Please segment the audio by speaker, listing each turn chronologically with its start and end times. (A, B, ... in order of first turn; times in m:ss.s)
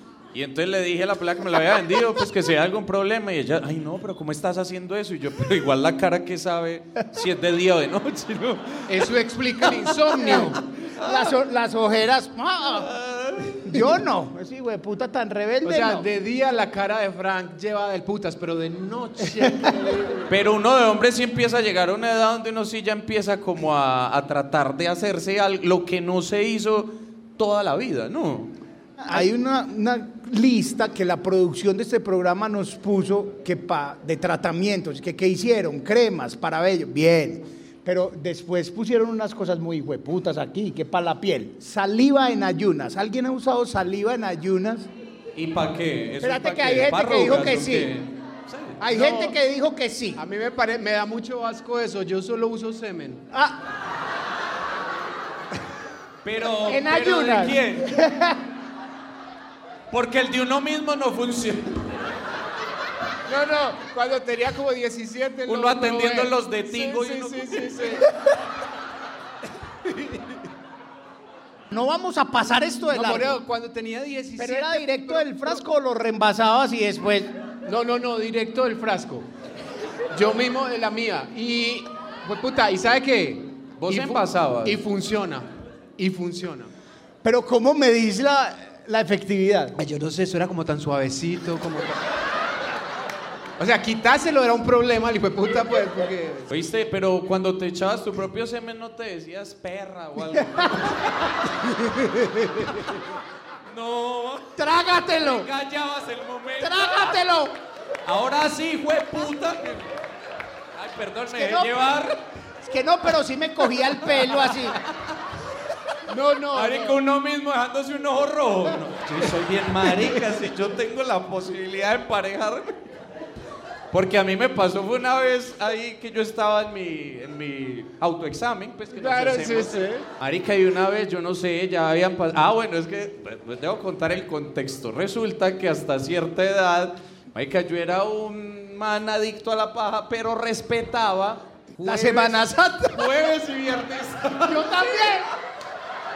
0:00.3-0:09.1 A
0:08.9-0:10.6 B
0:09.7-0:11.3 A
0:10.2-0:12.9 C
0:12.7-0:13.7 A
0:13.6-0:16.1 C
0:15.6-0:20.3 B
0:20.3-0:28.5 A
0:29.0-0:44.9 C
0:45.3-0:48.8 A
0:46.2-0:47.9 C
0:48.8-0:50.2 C
0:48.9-0:49.3 B
0:50.2-0:53.2 B
0:53.3-0:53.6 C
0:56.2-0:58.0 A
0:56.6-0:58.4 C
0:59.9-1:01.8 A
1:03.2-1:08.1 B
1:05.5-1:08.0 A
1:09.8-1:10.4 B
1:11.7-1:13.4 C
1:12.9-1:15.6 B
1:14.4-1:17.3 C
1:17.6-1:19.3 B
1:20.1-1:26.7 B
1:23.8-1:24.8 A
1:27.2-1:29.8 C
1:29.8-1:32.0 B
1:33.6-1:36.5 B
1:36.5-1:41.5 A
1:40.4-1:40.7 C
1:43.6-1:47.2 A
1:44.6-1:45.5 C
1:46.6-1:47.6 C
1:48.0-1:49.9 A
1:50.7-1:52.2 A
1:51.3-1:51.8 C
1:52.6-1:54.8 C
1:54.2-1:55.1 A
1:56.1-1:56.9 C
1:56.5-2:02.8 A
2:03.9-2:25.3 A
2:08.9-2:10.1 B
2:21.8-2:23.1 C
2:24.4-2:25.3 C